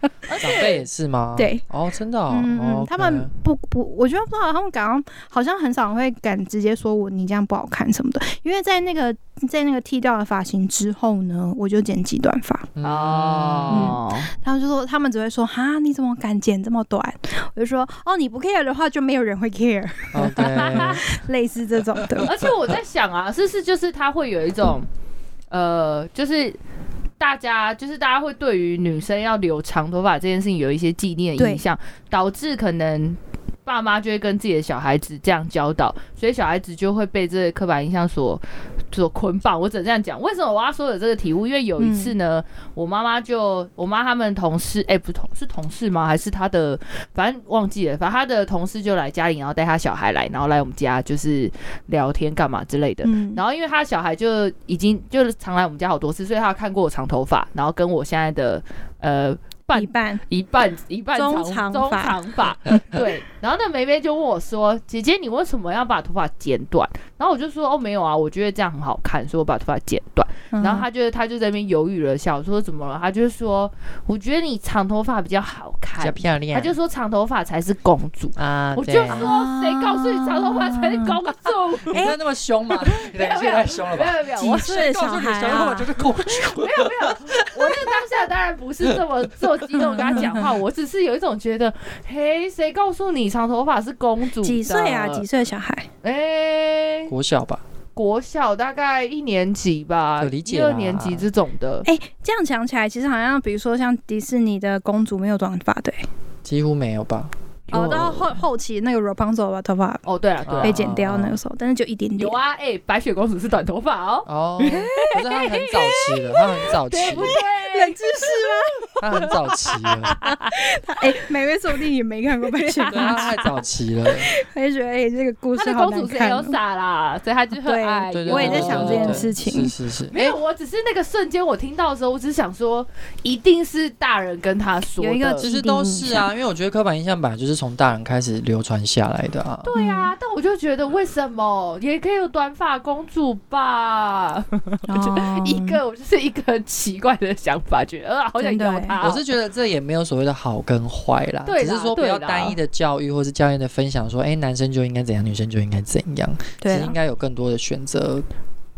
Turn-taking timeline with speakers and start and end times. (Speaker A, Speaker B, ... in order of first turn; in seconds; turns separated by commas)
Speaker A: 0.3-0.9, Speaker B: 0.4-3.3, Speaker C: 1.4-1.6, Speaker C: 2.3-12.7, Speaker B: 12.8-14.0, Speaker A: 12.8-14.3, Speaker C: 13.7-22.3, Speaker B: 20.1-21.1, Speaker A: 20.4-21.0, Speaker B: 22.0-22.5, Speaker A: 22.2-24.9, Speaker A: 25.5-26.6, Speaker A: 27.2-82.1, Speaker C: 31.4-31.6, Speaker C: 41.8-42.1, Speaker C: 53.0-53.4, Speaker C: 59.7-60.2, Speaker C: 61.1-62.2, Speaker C: 70.5-70.9, Speaker B: 76.0-76.7, Speaker B: 78.4-79.3, Speaker C: 79.1-81.2, Speaker B: 81.9-87.9, Speaker C: 81.9-82.2, Speaker A: 82.8-85.0, Speaker C: 84.4-85.9, Speaker A: 86.3-95.2, Speaker C: 89.7-90.5, Speaker C: 94.4-95.9, Speaker A: 96.0-97.1, Speaker B: 97.1-97.6, Speaker A: 98.0-101.9, Speaker B: 100.2-101.3, Speaker C: 101.8-106.1, Speaker B: 106.5-108.2, Speaker A: 107.7-108.3, Speaker C: 107.7-110.0, Speaker A: 110.1-110.8, Speaker B: 110.5-111.4, Speaker C: 110.6-112.4, Speaker A: 112.2-119.3, Speaker B: 114.3-117.4, Speaker C: 114.7-115.1, Speaker C: 117.1-119.3, Speaker B: 119.0-120.2, Speaker A: 119.8-120.5, Speaker C: 120.2-123.4, Speaker A: 122.7-123.2, Speaker B: 122.9-124.3, Speaker C: 124.2-126.6, Speaker A: 125.6-129.3, Speaker C: 127.5-129.7, Speaker B: 128.1-130.4, Speaker A: 130.1-135.4, Speaker C: 135.0-136.3, Speaker B: 135.4-139.7, Speaker A: 139.6-149.3, Speaker C: 139.7-140.1, Speaker C: 144.9-145.8, Speaker C: 148.4-149.0, Speaker B: 149.0-158.3, Speaker A: 151.5-152.6, Speaker C: 156.6-157.0